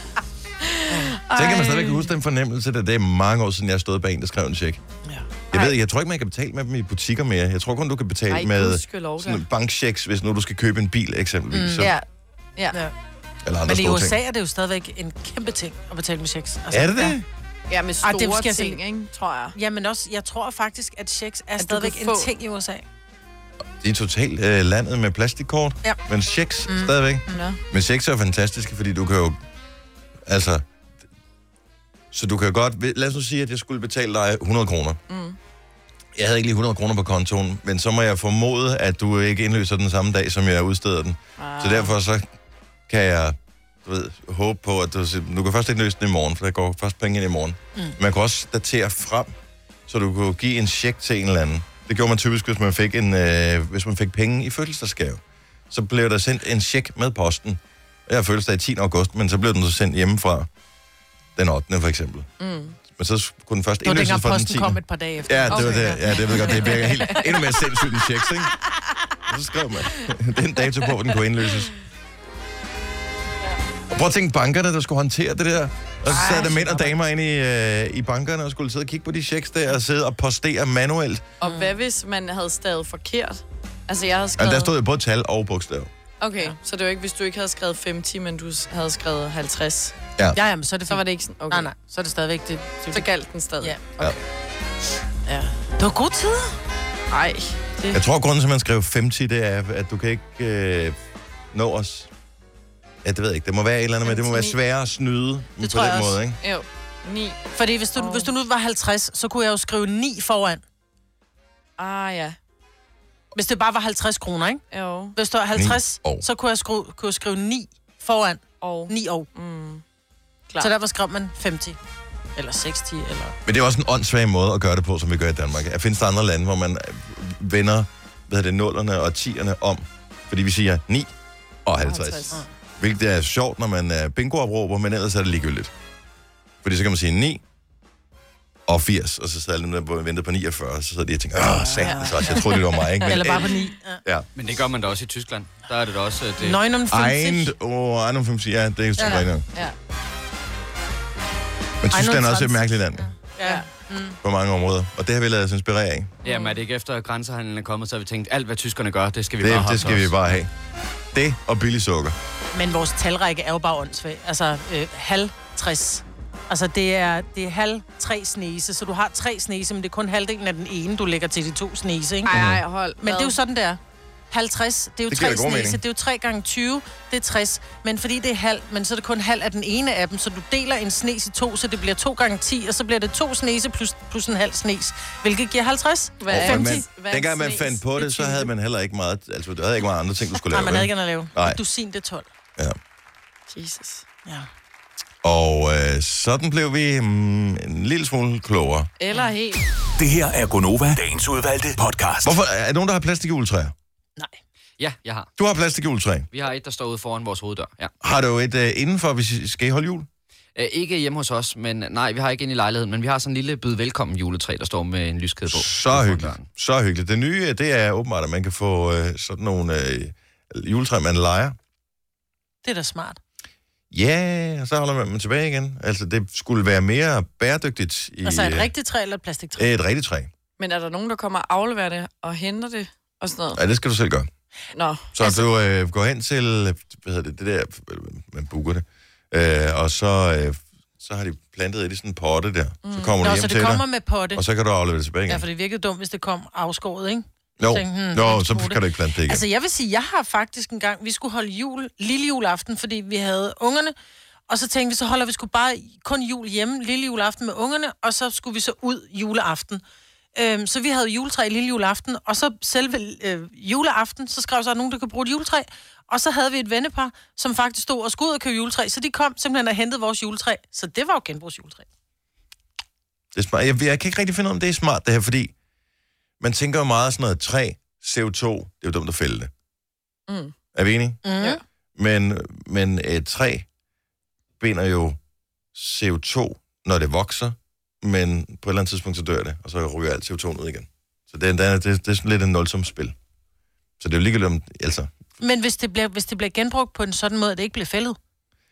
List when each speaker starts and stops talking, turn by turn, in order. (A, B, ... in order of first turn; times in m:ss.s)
0:00.6-0:02.1 A
0:01.3-0:04.8 B
0:05.0-0:05.6 C
0:05.5-0:11.9 B
0:08.3-0:09.4 A
0:11.5-0:11.9 C
0:11.8-0:12.0 A
0:13.4-0:14.2 B
0:13.7-0:17.2 C
0:16.7-0:17.2 B
0:17.7-0:19.5 A
0:18.0-0:18.8 C
0:19.5-0:22.8 C
0:21.6-0:22.3 A
0:23.8-0:29.4 B
0:26.7-0:27.4 C
0:27.3-0:27.6 A
0:30.2-0:30.6 B
0:32.1-0:35.0 B
0:35.1-0:35.4 A
0:36.1-0:42.3 B
0:41.4-0:41.9 A
0:42.9-0:49.3 B
0:49.9-1:00.5 B
1:01.4-1:02.3 B
1:02.4-1:02.8 A
1:02.9-1:08.5 B
1:03.8-1:07.2 C
1:05.5-1:07.8 A
1:09.3-1:11.7 B
1:13.9-1:21.2 B
1:16.1-1:16.9 C
1:16.1-1:16.5 A
1:21.4-1:24.7 A
1:21.4-1:21.8 C
1:24.4-1:25.9 B
1:26.2-1:29.9 A
1:30.3-1:33.1 C
1:30.9-1:31.7 A
1:32.9-1:34.2 A
1:35.2-1:36.6 C
1:37.1-1:38.0 A
1:37.9-1:41.0 B
1:41.5-1:42.1 B
1:43.0-1:46.4 B
1:44.0-1:44.5 A
1:45.6-1:46.2 C
1:46.4-1:47.4 A
1:47.6-1:50.6 C
1:47.9-1:48.3 A
1:51.8-1:52.4 A
1:53.3-1:54.6 C
1:54.7-1:55.1 A
1:55.2-1:59.3 C
1:55.5-1:56.2 B
1:58.6-1:59.8 A
2:00.6-2:01.8 C
2:02.4-2:03.4 C
2:03.4-2:11.1 B
2:11.6-2:15.7 B
2:11.8-2:12.4 A
2:16.6-2:17.4 B
2:18.7-2:23.5 B
2:21.6-2:22.4 C
2:21.8-2:23.4 A
2:23.1-2:24.0 C
2:24.4-2:26.6 D
2:26.4-2:27.5 C
2:26.9-2:29.4 B
2:29.0-2:29.7 A
2:31.8-2:33.1 B
2:31.9-2:34.2 C
2:34.2-2:36.1 B
2:36.2-2:36.6 A
2:36.3-2:40.2 D
2:39.4-2:40.5 B
2:41.1-2:42.1 B
2:42.5-2:52.3 C
2:52.2-2:53.4 A
2:52.3-2:52.6 B
2:53.0-2:53.8 C
2:54.3-3:06.8 C
2:55.1-2:55.8 B
3:06.2-3:08.5 A
3:06.3-3:11.6 B
3:10.5-3:12.3 C
3:13.5-3:14.0 A
3:15.2-3:18.9 B
3:19.0-3:19.6 A
3:20.0-3:22.4 E
3:22.2-3:23.7 B
3:24.8-3:25.3 D
3:25.4-3:26.3 B
3:26.3-3:27.9 D
3:28.0-3:30.1 B
3:30.6-3:36.4 D
3:35.5-3:41.6 B
3:42.6-3:43.2 C
3:43.9-3:48.7 B
3:48.2-3:49.7 C
3:49.6-3:50.3 B
3:50.6-3:53.6 A
3:53.6-3:54.3 B
3:54.7-3:55.1 A
3:55.1-4:05.4 B
4:02.8-4:03.2 A
4:03.2-4:04.4 C
4:05.3-4:13.9 C
4:07.6-4:09.4 B
4:14.5-4:19.8 C
4:20.3-4:31.8 C
4:33.3-4:35.5 B
4:36.4-4:39.5 B
4:40.3-4:40.5 A
4:40.7-4:41.2 B
4:41.2-4:41.6 C
4:42.0-4:43.6 B
4:44.6-4:45.2 B
4:45.7-4:53.1 B
4:54.0-4:55.1 B
4:55.4-4:58.2 C